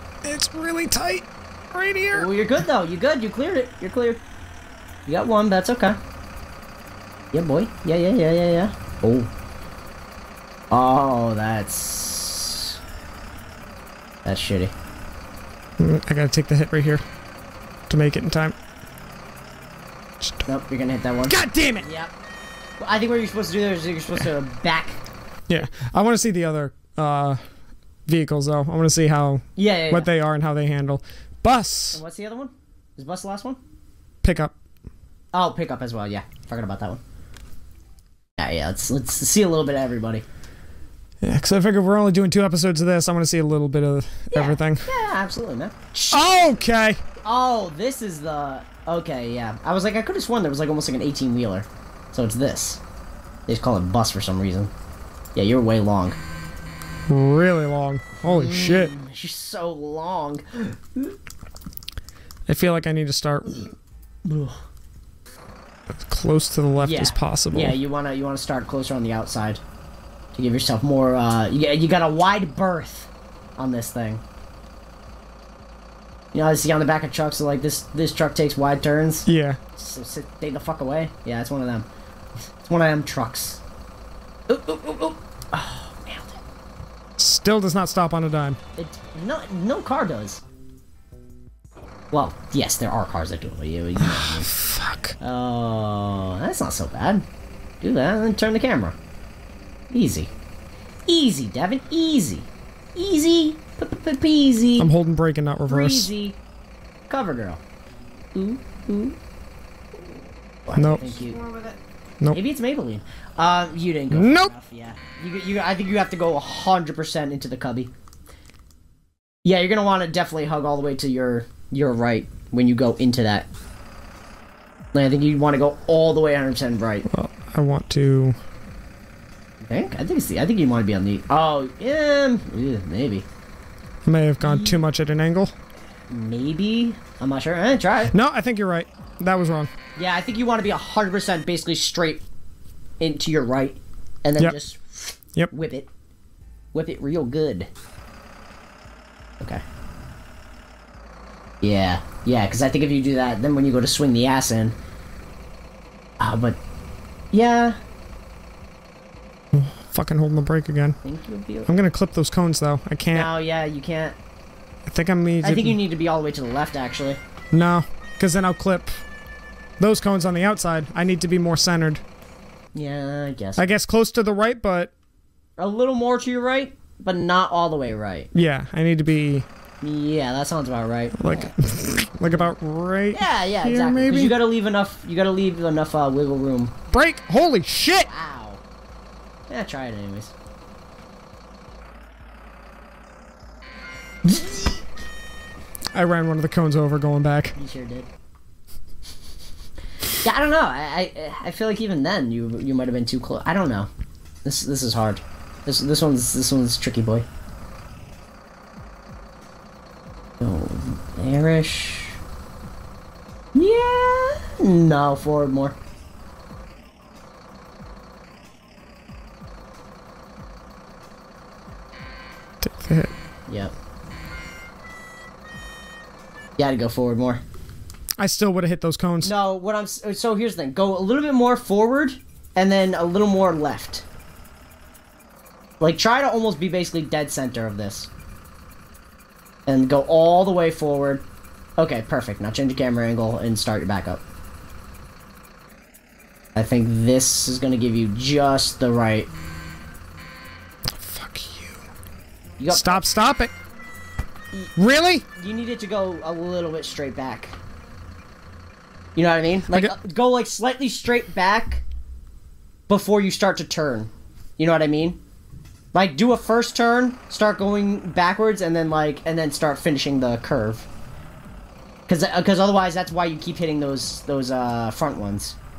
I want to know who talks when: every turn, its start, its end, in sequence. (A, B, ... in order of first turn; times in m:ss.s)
0:00.2-0:02.3 A
0:02.1-0:04.2 B
0:05.1-0:06.0 B
0:07.3-0:09.3 B
0:10.7-0:12.8 B
0:14.2-0:14.7 B
0:15.8-0:17.0 A
0:17.9-0:18.6 A
0:20.2-0:20.5 A
0:20.5-0:22.1 B
0:21.3-0:21.8 A
0:22.8-0:25.0 B
0:25.5-0:27.4 A
0:28.1-0:32.0 A
0:29.6-0:30.1 B
0:31.9-0:33.6 B
0:34.2-0:34.5 A
0:35.3-0:37.0 B
0:38.4-0:40.2 B
0:41.2-0:44.9 A
0:44.3-0:46.3 B
0:46.1-0:47.0 A
0:47.2-0:52.8 B
0:53.5-0:54.7 B
0:55.4-0:56.2 B
0:57.1-0:58.9 A
0:58.2-1:01.2 B
1:02.5-1:03.7 A
1:04.2-1:04.6 B
1:06.0-1:07.8 A
1:06.8-1:09.6 B
1:10.3-1:14.2 B
1:16.3-1:21.9 B
1:19.3-1:19.6 A
1:22.6-1:23.6 B
1:24.5-1:26.4 B
1:27.2-1:28.6 A
1:28.8-1:30.4 B
1:32.1-1:34.5 B
1:34.0-1:35.1 A
1:35.2-1:37.2 B
1:37.8-1:39.0 B
1:39.9-1:40.3 B
1:41.1-1:44.9 B
1:44.8-1:46.1 A
1:45.7-1:46.4 B
1:47.1-1:47.6 B
1:48.3-1:49.2 B
1:50.6-1:51.5 B
1:50.8-1:51.6 A
1:52.3-1:57.9 B
1:54.1-1:54.5 A
1:59.4-2:03.5 B
2:04.9-2:07.1 B
2:07.1-2:08.4 A
2:09.6-2:13.3 B
2:14.0-2:15.5 A
2:14.4-2:14.8 B
2:16.1-2:18.1 B
2:18.1-2:19.7 A
2:20.0-2:22.2 B
2:23.0-2:25.9 B
2:26.7-2:27.7 B
2:31.6-2:34.8 B
2:36.2-2:36.6 B
2:37.3-2:37.8 B
2:39.5-2:41.0 A
2:41.0-2:41.7 B
2:41.7-2:43.3 A
2:43.1-2:44.2 B
2:44.9-2:45.8 A
2:45.4-2:47.2 B
2:47.5-2:48.9 A
2:49.8-2:52.0 A
2:52.7-2:53.7 B
2:53.6-2:54.9 A
2:55.6-2:58.3 B
2:58.3-2:59.5 A
2:59.8-3:01.5 B
3:01.2-3:04.4 A
3:03.1-3:06.7 B
3:06.9-3:08.1 A
3:08.1-3:08.6 B
3:09.5-3:10.3 B
3:14.2-3:14.8 B
3:15.9-3:17.6 A
3:17.6-3:18.1 B
3:20.2-3:23.9 B
3:24.4-3:27.3 B
3:30.4-3:32.2 B
3:33.6-3:35.8 B
3:42.6-3:43.1 A
3:43.5-3:43.7 B
3:46.6-3:47.4 B
3:48.2-3:49.3 A
3:49.2-3:54.0 B
3:55.8-3:58.1 B
3:59.7-4:01.2 B
4:01.8-4:04.2 B
4:06.6-4:09.3 B
4:11.0-4:11.8 A
4:12.6-4:13.0 B
4:12.7-4:13.5 A
4:14.8-4:15.2 A
4:15.3-4:17.6 B
4:19.2-4:21.8 B
4:19.7-4:19.9 A
4:22.9-4:25.2 B
4:25.9-4:30.9 B
4:32.1-4:35.6 B